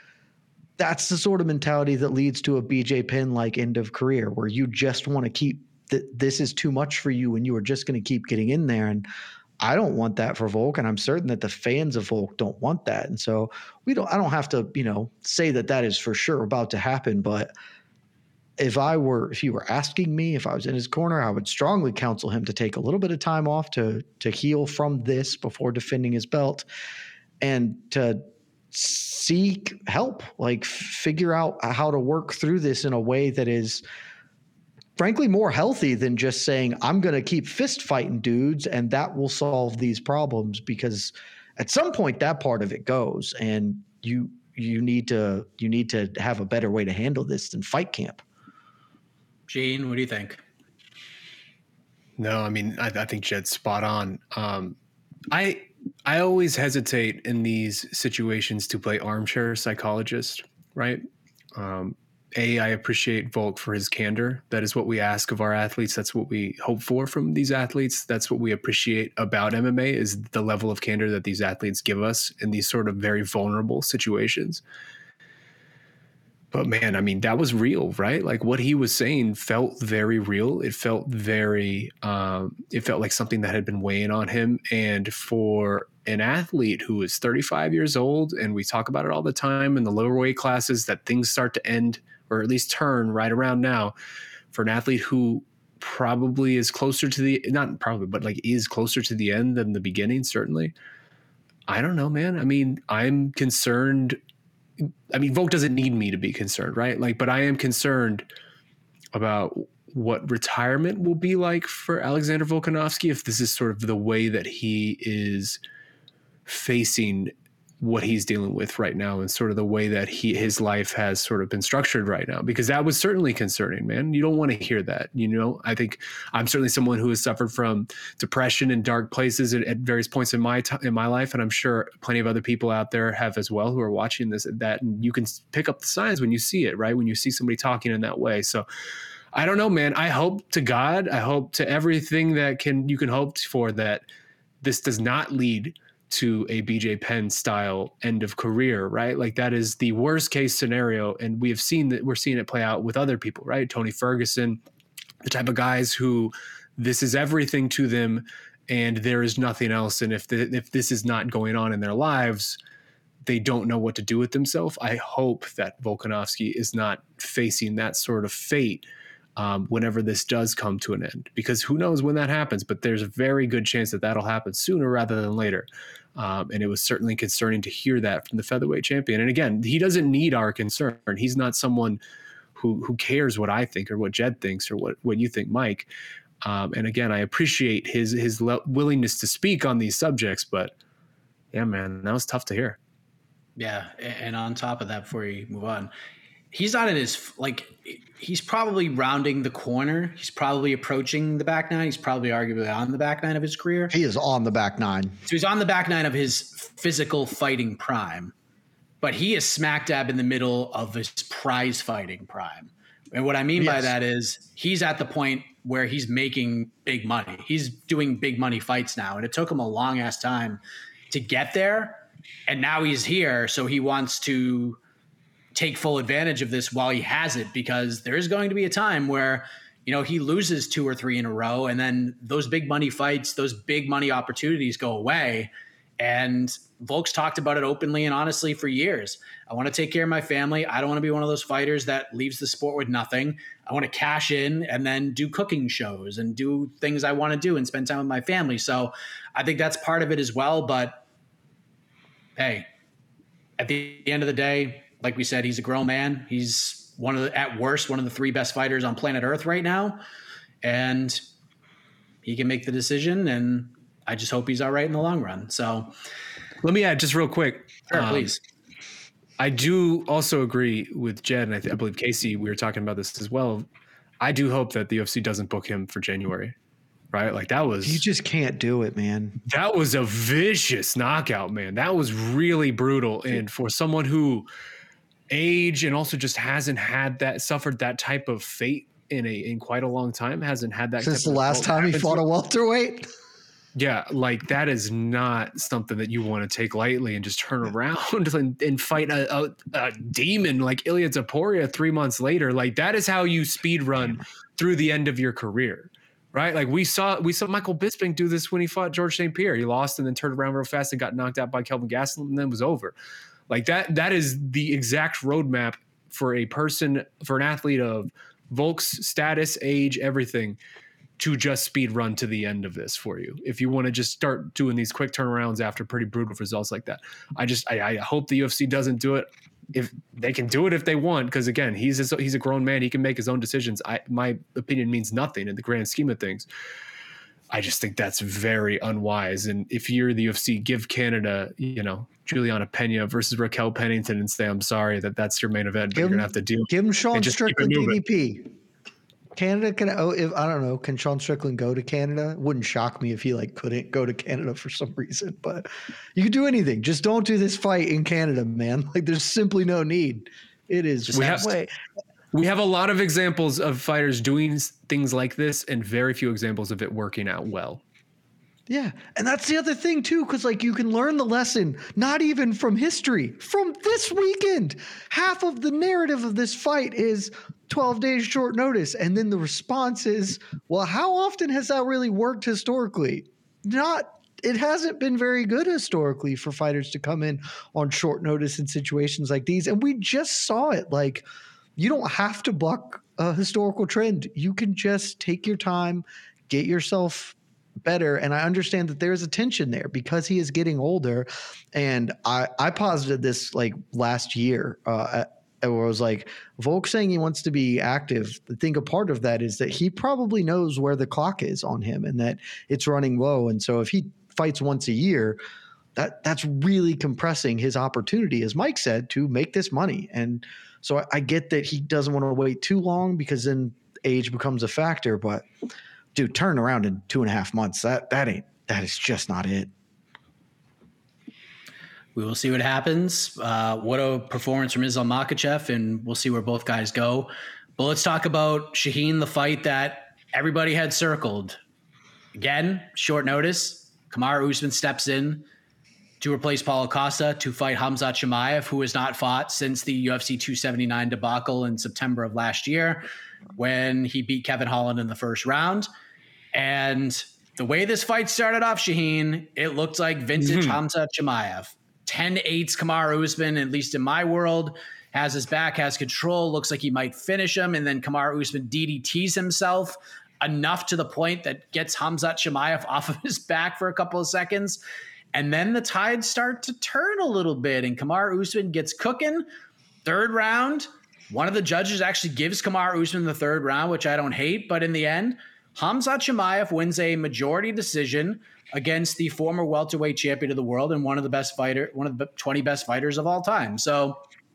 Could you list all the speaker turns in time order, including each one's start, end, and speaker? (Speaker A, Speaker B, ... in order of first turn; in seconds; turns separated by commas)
Speaker A: 0.8-9.1, Speaker A: 9.6-17.5, Speaker A: 18.6-26.6, Speaker A: 27.4-33.8, Speaker A: 35.0-48.2, Speaker B: 49.5-50.4, Speaker C: 52.2-54.8, Speaker C: 55.3-61.0, Speaker C: 61.6-74.6, Speaker C: 76.5-93.9, Speaker C: 94.5-100.7, Speaker C: 101.7-104.2, Speaker C: 104.8-108.3, Speaker C: 109.1-115.6, Speaker C: 116.5-138.7, Speaker C: 139.3-144.1, Speaker C: 144.6-154.6, Speaker C: 155.2-162.6, Speaker C: 163.2-168.8, Speaker C: 169.4-182.0, Speaker C: 182.6-185.9, Speaker C: 186.4-190.7, Speaker C: 191.5-192.8, Speaker B: 193.6-195.9, Speaker B: 196.5-204.0, Speaker A: 203.9-205.2, Speaker B: 205.3-208.3, Speaker B: 209.0-224.8, Speaker A: 213.6-213.9, Speaker B: 225.6-251.0, Speaker B: 252.4-252.7, Speaker B: 253.6-260.0, Speaker B: 260.6-261.2, Speaker B: 262.2-265.9, Speaker C: 266.6-268.4, Speaker B: 267.9-268.4, Speaker C: 269.4-273.6, Speaker C: 274.2-276.6, Speaker C: 277.1-278.0, Speaker A: 277.8-279.4, Speaker C: 279.4-284.5, Speaker C: 285.3-292.2, Speaker A: 291.0-293.1, Speaker C: 293.8-312.9, Speaker C: 313.5-320.6, Speaker C: 321.2-336.5, Speaker C: 337.5-348.0, Speaker A: 345.9-348.6, Speaker A: 349.4-361.7, Speaker C: 361.1-361.6, Speaker C: 362.3-367.8, Speaker A: 368.7-391.3, Speaker A: 391.8-415.4, Speaker A: 416.0-425.4, Speaker A: 426.1-429.7, Speaker B: 432.1-441.6, Speaker B: 442.4-445.4, Speaker B: 446.2-455.9, Speaker B: 456.5-474.8, Speaker C: 460.4-460.8, Speaker B: 475.3-479.5, Speaker B: 480.0-494.2